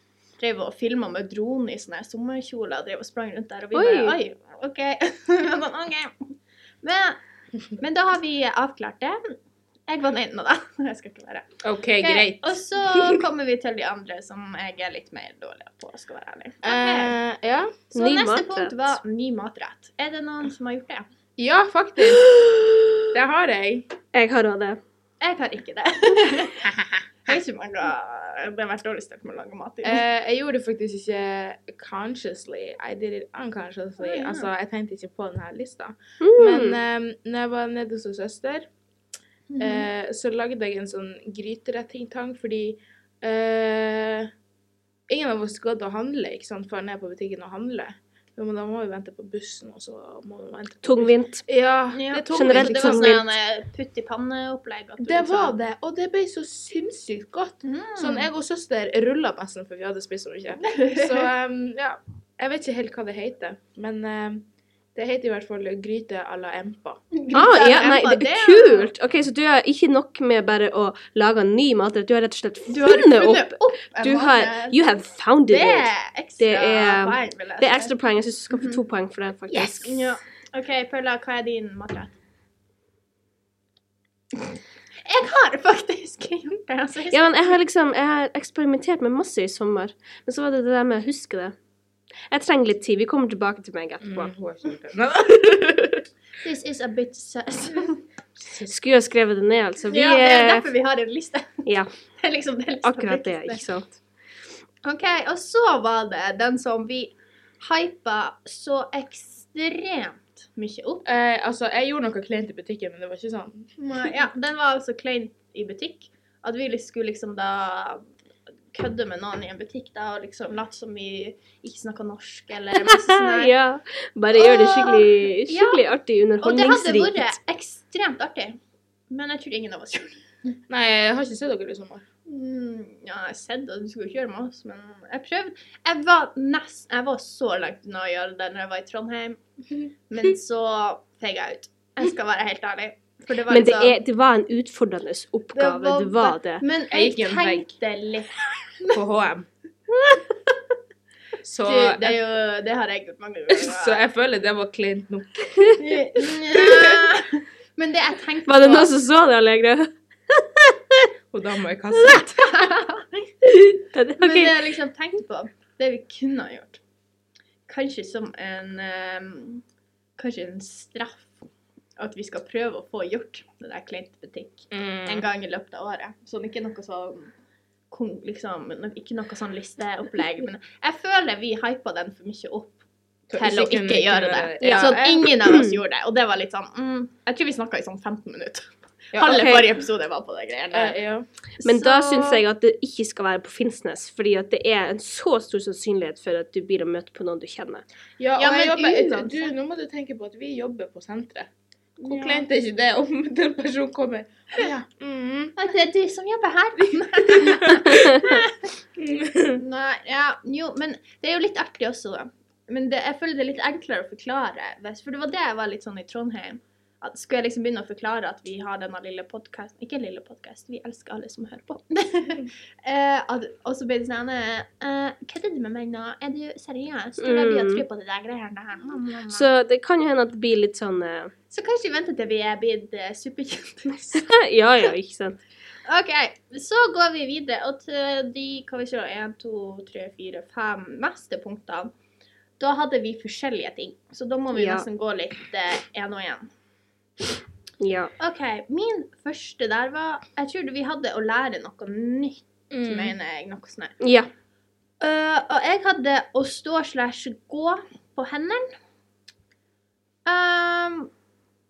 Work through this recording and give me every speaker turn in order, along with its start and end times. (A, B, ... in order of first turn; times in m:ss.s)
0:00.4-0:07.2 A
0:03.7-0:04.2 B
0:07.8-0:09.2 A
0:09.9-0:11.5 A
0:11.6-0:13.2 C
0:12.0-0:17.2 A
0:16.6-0:17.8 C
0:17.9-0:21.0 A
0:17.9-0:19.0 B
0:21.4-0:22.3 C
0:23.1-0:23.9 C
0:24.1-0:24.8 B
0:25.2-0:26.7 A
0:27.2-0:30.0 A
0:29.8-0:38.7 C
0:34.0-0:34.5 A
0:36.2-0:36.8 B
0:39.5-0:39.9 A
0:39.6-0:44.3 C
0:45.1-0:53.2 C
0:50.8-0:51.4 B
0:51.9-0:55.5 A
0:52.3-0:53.3 B
0:55.0-1:07.0 C
0:57.6-0:58.3 A
1:00.6-1:01.3 A
1:07.1-1:08.9 A
1:07.3-1:20.2 B
1:12.7-1:14.8 A
1:15.5-1:17.9 A
1:18.5-1:18.8 A
1:19.5-1:22.1 A
1:25.0-1:27.3 A
1:27.1-1:31.5 B
1:32.3-1:34.3 B
1:34.0-1:36.0 C
1:36.4-1:38.0 A
1:38.4-1:38.7 C
1:38.7-1:40.7 B
1:39.9-1:43.6 A
1:42.8-1:43.9 B
1:44.8-1:51.0 A
1:51.0-1:53.7 C
1:53.8-1:58.1 A
1:58.7-2:03.5 A
2:02.9-2:07.4 B
2:04.3-2:05.8 A
2:06.4-2:08.6 A
2:09.1-2:10.5 A
2:10.7-2:12.0 C
2:12.3-2:19.4 A
2:20.1-2:23.9 A
2:23.5-2:26.6 B
2:25.5-2:29.0 A
2:26.9-2:27.7 C
2:28.9-2:29.5 C
2:29.9-2:30.5 A
2:31.4-2:32.2 C
2:31.6-2:34.0 A
2:33.5-2:35.8 C
2:35.8-2:38.9 A
2:36.4-2:37.0 C
2:38.4-2:41.1 B
2:41.3-2:42.4 C
2:41.9-2:43.5 A
2:43.5-2:44.6 B
2:44.2-2:46.8 A
2:47.7-2:49.6 A
2:50.2-2:51.3 A
2:52.0-2:57.3 A
2:54.7-2:55.3 C
2:57.9-3:02.7 A
3:03.3-3:05.3 C
3:03.3-3:11.0 A
3:04.6-3:05.8 B
3:09.1-3:09.5 C
3:09.2-3:09.6 B
3:10.7-3:11.2 C
3:11.6-3:12.4 A
3:11.6-3:17.8 B
3:18.2-3:21.5 C
3:18.4-3:19.5 A
3:22.0-3:22.5 A
3:22.0-3:25.5 C
3:25.6-3:28.7 A
3:27.3-3:28.2 C
3:29.0-3:29.6 C
3:29.6-3:49.5 A
3:47.2-3:47.8 B
3:49.3-3:51.3 B
3:51.5-3:54.3 A
3:54.1-3:55.4 B
3:55.9-4:01.9 A
4:02.6-4:06.5 A
4:04.5-4:04.8 B
4:07.8-4:08.1 B
4:08.2-4:14.0 A
4:12.7-4:13.1 C
4:14.0-4:14.3 B
4:15.0-4:18.7 A
4:20.2-4:21.1 A